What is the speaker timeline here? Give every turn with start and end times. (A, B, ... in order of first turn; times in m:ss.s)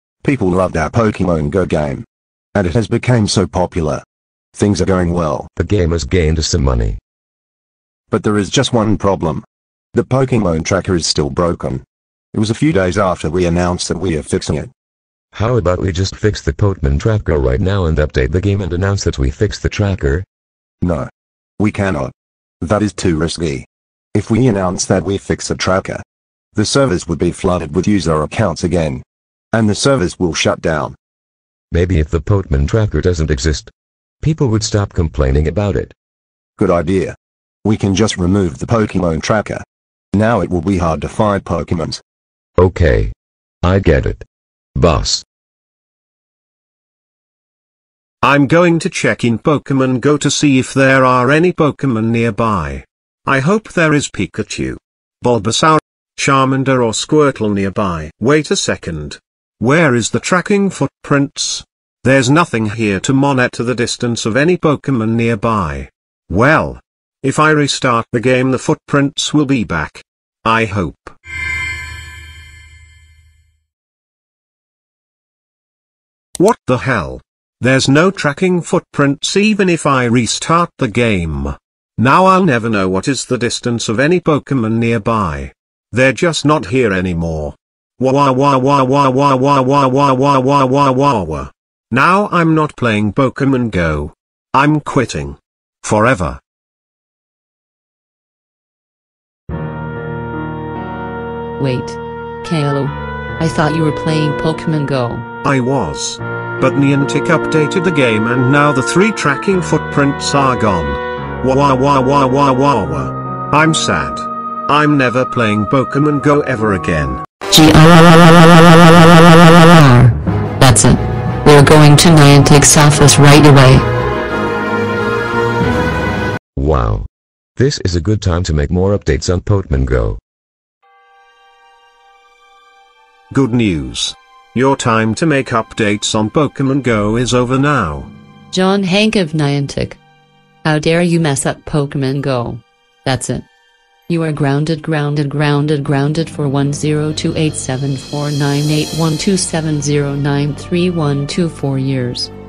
0:00.2-0:04.0 A
0:04.6-0:05.5 A
0:05.6-0:07.0 B
0:08.1-0:14.7 A
0:15.3-0:20.2 B
0:20.8-0:26.0 A
0:26.6-0:31.0 A
0:31.7-0:35.9 B
0:36.6-0:42.0 A
0:42.6-0:45.2 B
0:48.2-1:11.2 C
1:16.4-1:36.4 C
1:41.6-1:45.3 D
1:45.4-1:57.2 C
1:57.5-2:03.9 D
2:06.6-2:10.2 B
2:13.3-2:18.1 C
2:18.5-2:20.0 D
2:20.6-2:23.5 D
2:24.1-2:32.3 D